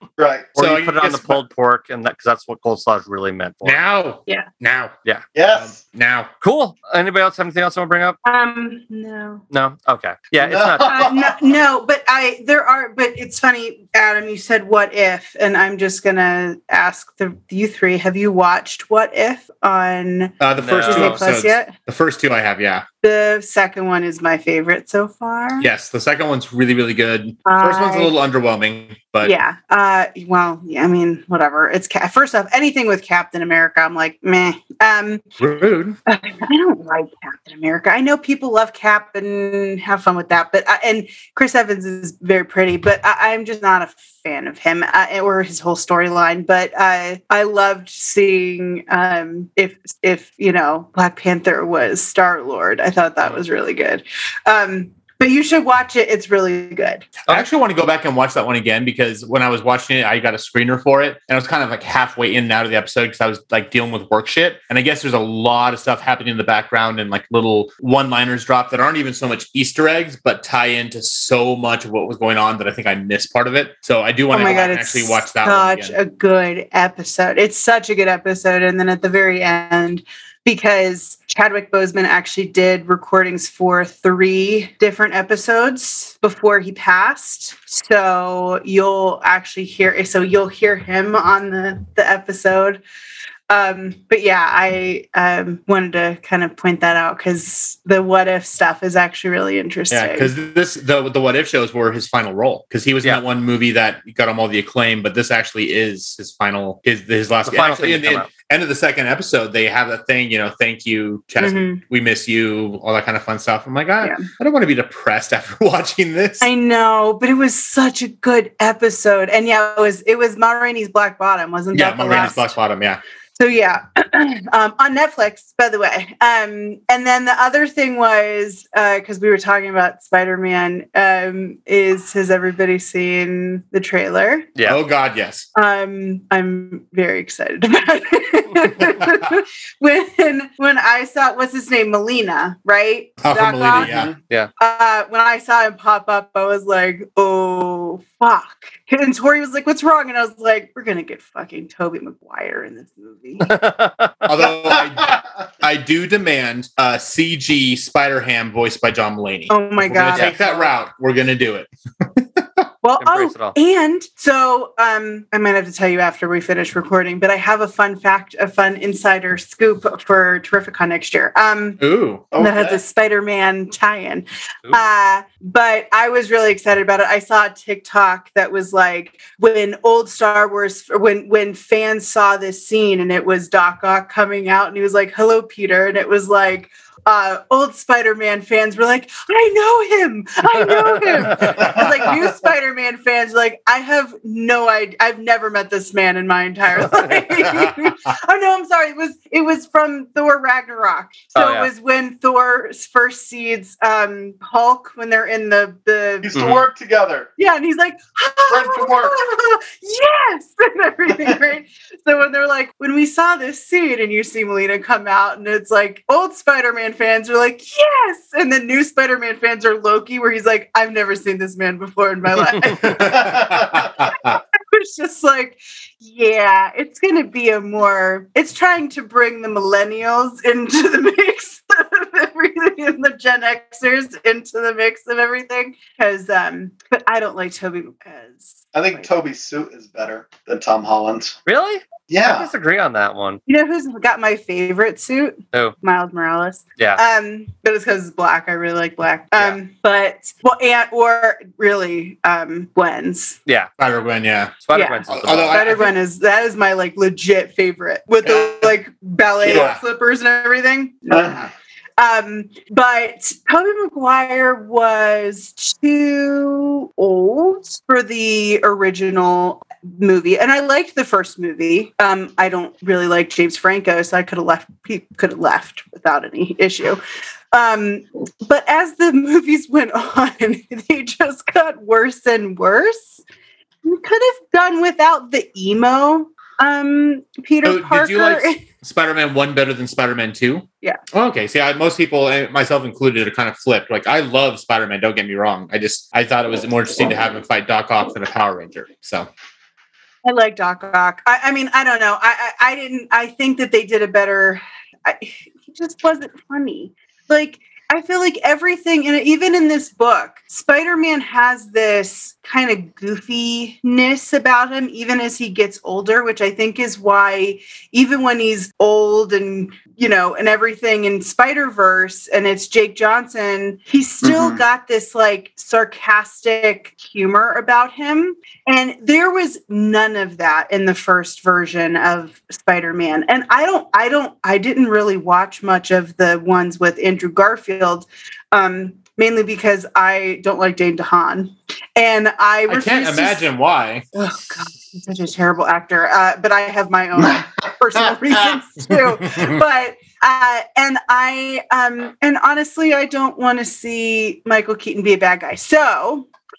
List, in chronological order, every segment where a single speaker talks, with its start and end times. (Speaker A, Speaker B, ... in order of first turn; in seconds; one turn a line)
Speaker A: 0.2-0.5
Speaker B: 0.5-1.4
Speaker C: 0.6-3.8
Speaker B: 3.6-4.9
Speaker A: 5.3-5.8
Speaker B: 5.5-6.3
Speaker C: 6.4-8.2
Speaker D: 8.2-9.4
Speaker C: 9.5-11.1
Speaker A: 10.4-11.5
Speaker D: 10.9-21.7
Speaker B: 20.4-22.9
Speaker C: 20.6-21.2
Speaker D: 23.0-25.7
Speaker B: 25.6-29.4
Speaker D: 27.4-28.1
Speaker D: 29.2-35.2
Speaker B: 35.4-36.0
Speaker D: 36.1-57.1
Speaker B: 57.3-75.9
Speaker D: 74.3-92.8
Speaker D: 93.5-100.3
Speaker B: 99.9-116.5
Speaker C: 107.4-108.3
Speaker D: 111.4-111.8
Speaker D: 114.0-114.3
Speaker D: 116.4-122.5
Speaker B: 121.7-123.0
Speaker D: 123.4-134.5
Speaker B: 134.7-135.4
Speaker D: 135.5-144.0
Speaker B: 138.8-139.2
Speaker B: 143.2-144.1
Speaker A: 143.9-144.1
Speaker D: 144.6-153.5
Speaker C: 153.4-154.5
Speaker B: 154.2-162.7
Speaker A: 154.7-155.2
Speaker D: 159.5-160.7
Speaker D: 162.8-171.8
Speaker C: 163.0-163.5
Speaker B: 171.8-172.3
Speaker A: 172.3-172.8
Speaker D: 172.3-206.3
Speaker C: 190.6-191.8
Speaker A: 191.4-192.1
Speaker C: 201.3-201.7
Speaker A: 206.2-207.3
Speaker C: 206.3-206.7
Speaker D: 207.4-239.1
Speaker A: 208.5-209.1
Speaker B: 222.8-224.4
Speaker A: 222.9-223.9
Speaker A: 238.7-241.4
Speaker C: 241.4-243.4
Speaker A: 242.1-242.5
Speaker D: 243.5-253.4
Speaker B: 253.8-255.9
Speaker C: 254.6-255.8
Speaker D: 254.7-277.0
Speaker B: 259.4-259.8
Speaker A: 261.1-261.4
Speaker D: 277.5-283.2
Speaker D: 283.8-288.6
Speaker B: 287.6-299.3
Speaker D: 300.2-343.4
Speaker A: 324.2-324.6
Speaker B: 342.7-344.1
Speaker D: 344.1-356.2
Speaker A: 347.2-347.5